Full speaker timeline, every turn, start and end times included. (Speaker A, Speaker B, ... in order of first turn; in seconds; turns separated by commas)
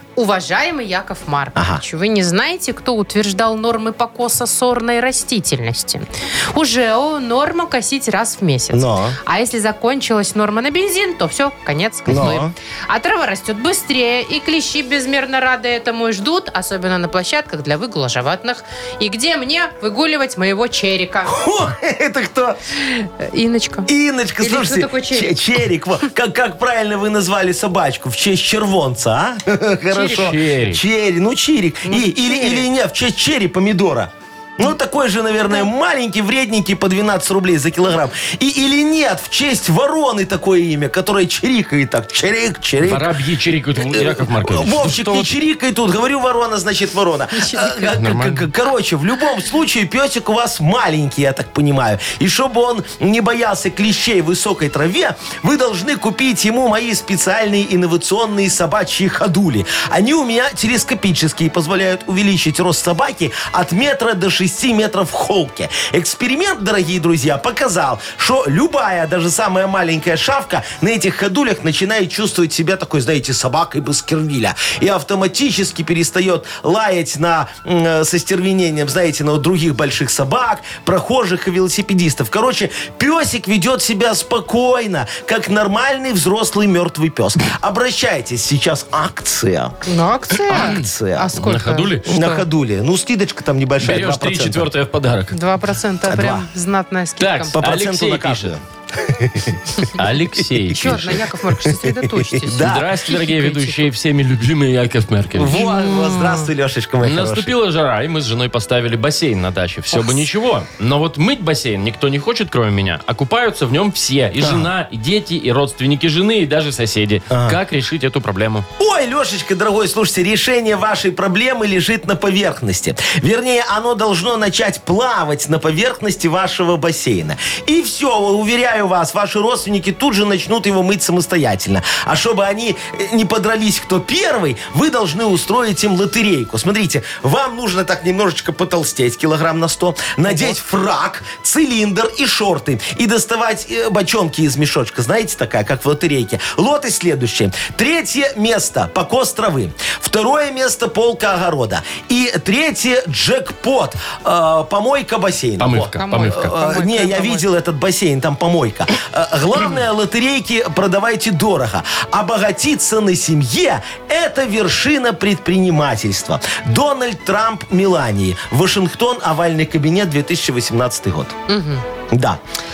Speaker A: 0.2-21.4, Speaker B: 1.6-1.8, Speaker B: 8.7-9.2, Speaker B: 12.1-12.5, Speaker B: 21.2-22.6, Speaker A: 22.8-23.9, Speaker B: 23.9-43.1, Speaker A: 24.4-25.4, Speaker A: 29.9-30.3, Speaker C: 30.1-30.8, Speaker A: 31.9-32.7, Speaker C: 42.8-45.3, Speaker B: 43.8-89.8, Speaker A: 47.4-47.9, Speaker C: 47.9-48.5, Speaker A: 89.8-92.5, Speaker B: 90.5-91.3, Speaker C: 90.5-92.1, Speaker B: 92.1-94.7, Speaker C: 93.8-95.3, Speaker A: 95.3-97.6, Speaker B: 96.1-96.5, Speaker C: 97.2-98.5, Speaker B: 97.5-99.8, Speaker C: 100.0-101.2, Speaker B: 100.4-102.9, Speaker A: 100.7-103.8, Speaker C: 102.6-105.6, Speaker B: 105.3-107.5, Speaker A: 105.5-106.5, Speaker C: 107.0-118.7, Speaker A: 109.9-110.2, Speaker B: 114.4-114.7, Speaker B: 117.3-117.6, Speaker B: 118.8-171.3, Speaker C: 155.6-156.5, Speaker A: 155.9-157.5, Speaker A: 171.5-171.8, Speaker B: 172.1-172.4